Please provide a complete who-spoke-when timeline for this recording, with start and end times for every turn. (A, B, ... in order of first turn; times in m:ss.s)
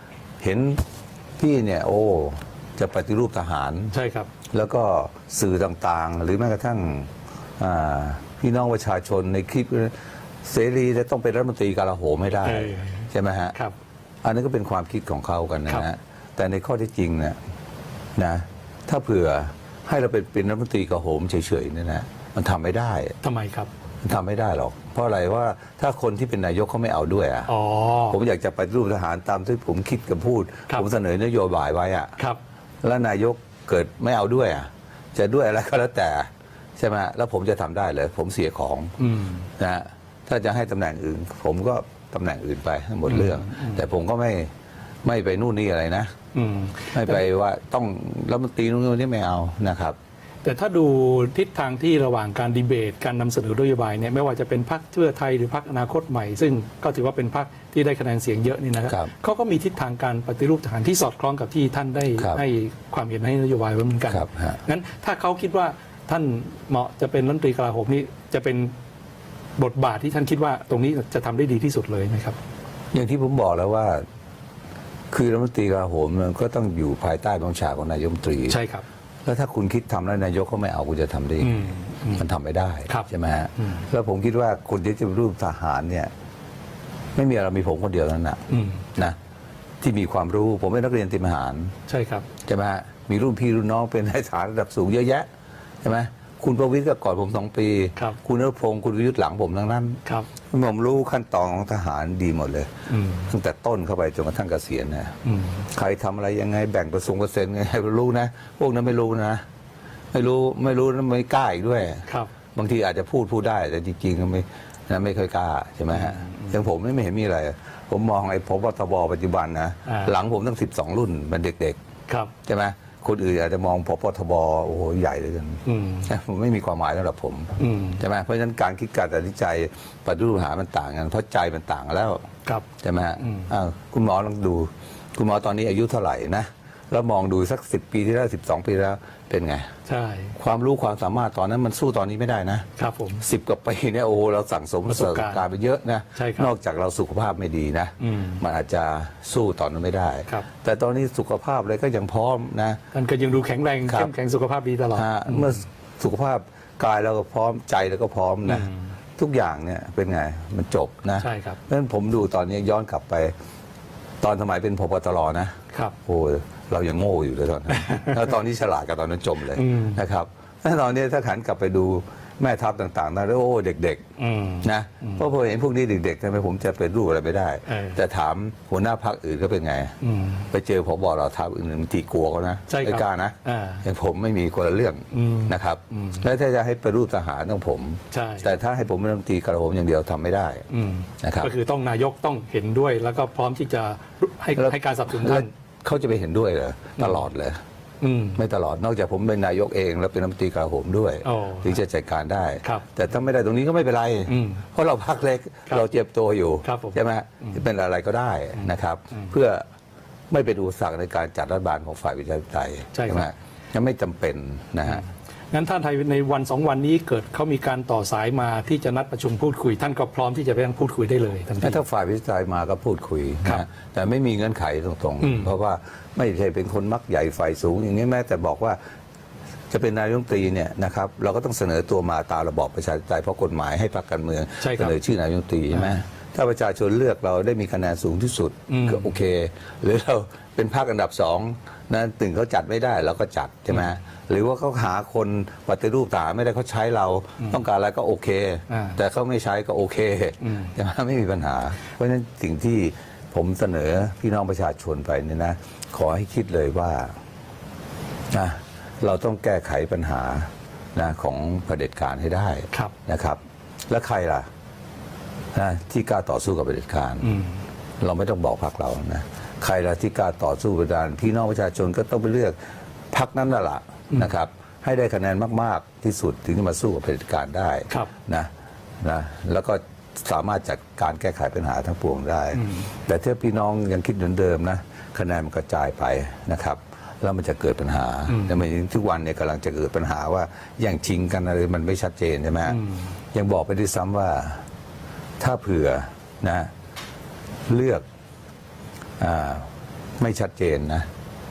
0:00.4-0:00.8 A
0:01.4-0:03.9 A
0:03.9-0:04.3 B
0:04.5-0:13.6 A
0:12.4-0:13.7 B
0:14.2-0:17.4 A
0:18.2-0:23.2 A
0:23.2-0:23.7 B
0:24.0-0:27.5 A
0:27.5-0:28.2 B
0:28.1-0:32.1 A
0:32.8-0:38.9 A
0:39.0-0:39.5 B
0:39.6-0:44.5 A
0:43.1-0:43.8 B
0:45.0-0:46.1 A
0:46.3-0:47.2 B
0:46.9-0:50.0 A
0:50.4-1:08.7 B
1:02.2-1:02.4 A
1:04.1-1:04.6 A
1:09.6-1:12.4 B
1:12.9-1:14.0 A
1:15.1-1:18.6 A
1:18.5-1:18.8 B
1:19.2-1:26.1 A
1:21.4-1:22.3 B
1:22.9-1:23.8 B
1:27.1-1:28.4 A
1:28.5-1:28.9 B
1:29.8-1:31.7 A
1:31.9-1:32.3 B
1:32.4-1:35.3 A
1:35.8-1:40.0 A
1:40.5-1:42.7 A
1:42.9-1:43.3 B
1:43.3-1:45.2 A
1:45.2-1:45.6 B
1:45.7-1:49.4 A
1:50.1-2:01.8 A
1:55.9-1:56.5 B
1:59.9-2:00.1 B
2:02.4-2:12.3 A
2:05.6-2:06.1 B
2:07.6-2:08.0 B
2:12.8-2:19.7 A
2:13.2-2:13.5 B
2:19.9-2:20.4 B
2:20.4-2:22.7 A
2:22.8-2:23.2 B
2:23.2-2:32.8 A
2:24.9-2:25.4 B
2:26.1-2:26.5 B
2:28.0-2:28.4 B
2:32.9-2:35.6 B
2:33.9-2:34.1 A
2:34.9-2:43.3 A
2:38.4-2:38.9 B
2:41.2-2:41.6 B
2:44.2-2:54.0 A
2:47.7-2:48.2 B
2:49.6-2:50.0 B
2:54.2-2:55.3 B
2:54.6-3:00.0 A
2:57.7-2:58.0 B
3:00.0-3:00.5 B
3:00.5-3:10.7 A
3:02.7-3:03.8 B
3:05.1-3:06.2 B
3:08.1-3:08.5 B
3:10.7-3:15.5 B
3:11.2-3:11.5 A
3:14.6-3:17.6 A
3:18.0-3:18.4 B
3:18.4-3:29.6 A
3:21.2-3:21.8 B
3:24.3-3:24.6 B
3:26.6-3:27.6 B
3:28.6-3:29.3 B
3:30.3-3:35.0 A
3:32.9-3:33.3 B
3:34.8-3:41.8 B
3:41.6-3:48.8 A
3:45.2-3:45.5 B
3:49.7-4:17.2 A
3:54.6-3:55.0 B
3:58.7-3:59.1 B
4:08.7-4:09.0 B
4:10.4-4:10.7 B
4:18.3-4:24.5 A
4:25.5-4:27.4 A
4:27.2-4:27.6 B
4:28.0-4:32.6 A
4:33.1-4:52.8 A
4:42.5-4:42.9 B
4:48.3-4:48.6 B
4:52.6-4:53.1 B
4:53.3-4:54.6 A
4:55.4-4:56.7 A
4:57.7-4:58.0 A
4:59.2-5:01.1 A